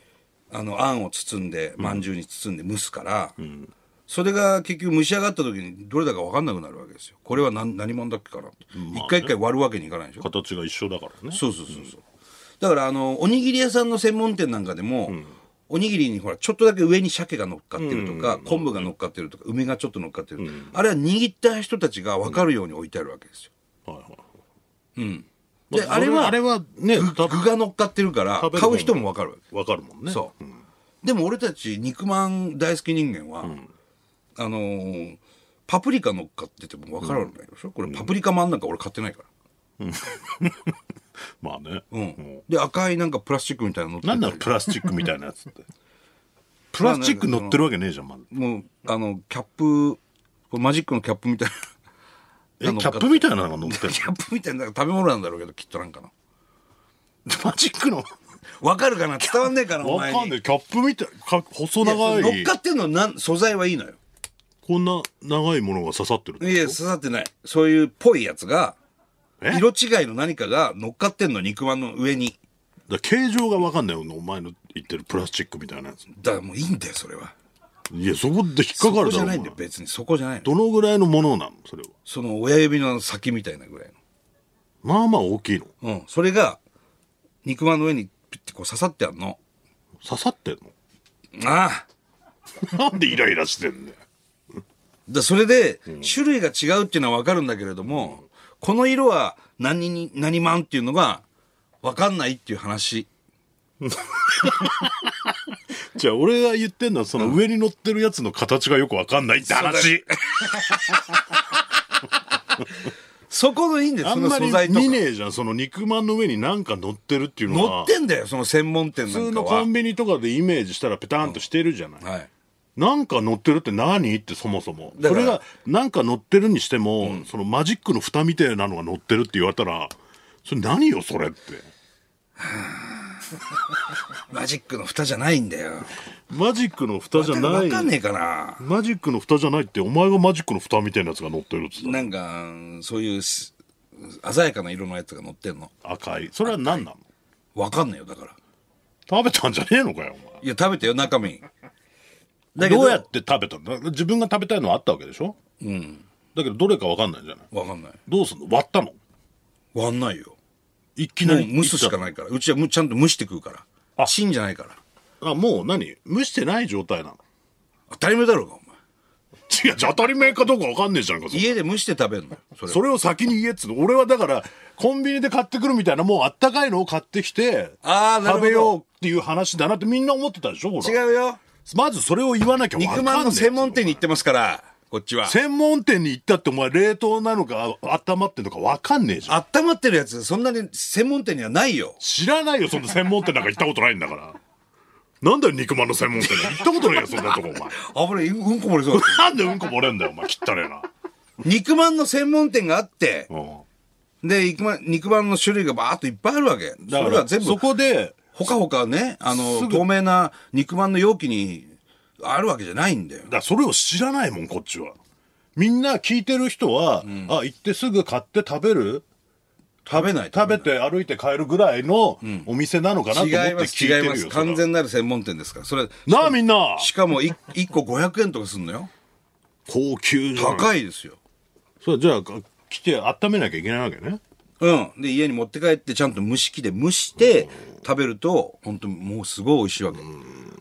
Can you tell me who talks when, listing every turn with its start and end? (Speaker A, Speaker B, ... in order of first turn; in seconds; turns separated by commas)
Speaker A: 0.5-3.4, Speaker B: 1.8-2.1, Speaker B: 3.4-3.7, Speaker A: 4.1-10.2, Speaker B: 8.7-9.3, Speaker B: 10.2-11.9, Speaker A: 11.3-12.0, Speaker A: 12.6-23.5, Speaker B: 15.1-15.3, Speaker B: 17.8-18.9, Speaker B: 20.4-20.8, Speaker B: 23.9-24.3, Speaker A: 24.9-29.4, Speaker B: 25.7-27.5, Speaker B: 28.4-30.4, Speaker A: 31.0-33.5, Speaker B: 33.4-33.7, Speaker A: 34.4-39.3, Speaker B: 37.0-37.3, Speaker B: 37.8-38.1, Speaker B: 39.8-40.8, Speaker B: 41.4-42.4, Speaker A: 41.9-44.5, Speaker B: 44.0-45.7, Speaker B: 46.7-48.3, Speaker A: 46.8-47.7, Speaker A: 48.3-51.5, Speaker B: 52.6-54.1, Speaker A: 52.6-56.1, Speaker B: 57.2-58.1, Speaker A: 58.6-60.4, Speaker B: 59.2-62.5, Speaker A: 61.8-64.0, Speaker B: 64.6-66.8, Speaker A: 66.4-68.7, Speaker A: 69.5-72.4, Speaker B: 72.9-76.0, Speaker A: 76.1-77.3, Speaker B: 77.9-79.6, Speaker A: 78.7-80.5, Speaker B: 80.4-81.9, Speaker A: 82.0-84.0, Speaker B: 84.8-85.7, Speaker A: 85.8-86.6, Speaker A: 87.4-89.4, Speaker B: 90.0-90.7, Speaker A: 91.3-91.8, Speaker B: 92.6-94.0, Speaker A: 95.1-101.2, Speaker A: 101.8-103.1, Speaker B: 103.8-105.3, Speaker B: 105.9-110.7, Speaker A: 109.5-111.2, Speaker A: 113.3-115.0, Speaker B: 114.0-117.9, Speaker A: 117.5-119.7, Speaker B: 119.0-122.0, Speaker A: 122.0-122.3, Speaker B: 122.8-131.7, Speaker A: 125.0-125.4, Speaker A: 127.0-127.3, Speaker A: 132.4-133.5, Speaker A: 134.1-136.1, Speaker B: 136.3-137.9, Speaker A: 137.1-138.6, Speaker B: 138.6-142.1, Speaker A: 141.8-145.7, Speaker B: 145.8-147.0, Speaker A: 147.5-148.3, Speaker B: 149.1-150.4, Speaker A: 150.4-151.4, Speaker A: 152.5-153.1, Speaker B: 152.6-155.4, Speaker A: 155.6-156.1, Speaker B: 156.3-157.5, Speaker A: 157.5-158.0, Speaker B: 158.1-159.0, Speaker A: 159.7-160.3, Speaker B: 160.9-162.0, Speaker A: 161.2-164.8, Speaker B: 165.2-167.2, Speaker A: 167.9-168.7, Speaker B: 169.5-171.6, Speaker A: 171.3-172.8, Speaker B: 172.7-181.0, Speaker A: 177.8-178.7, Speaker A: 180.8-181.4, Speaker B: 181.7-184.0, Speaker A: 182.8-185.3, Speaker B: 185.2-189.4, Speaker A: 189.3-192.0, Speaker B: 192.0-194.4, Speaker B: 195.2-197.8, Speaker A: 196.3-199.3, Speaker B: 198.9-200.9, Speaker A: 201.4-203.3, Speaker B: 203.3-203.6, Speaker A: 204.2-207.7, Speaker B: 206.8-208.2, Speaker A: 208.3-213.3, Speaker B: 209.2-209.9, Speaker B: 213.2-215.0, Speaker B: 215.6-219.0, Speaker A: 217.0-217.3, Speaker A: 219.8-220.7, Speaker B: 219.9-224.6, Speaker A: 222.2-222.5, Speaker A: 223.1-228.9, Speaker B: 226.1-226.9, Speaker B: 229.7-230.7, Speaker A: 230.3-231.2, Speaker B: 231.8-234.2, Speaker A: 234.6-240.1, Speaker B: 240.1-240.5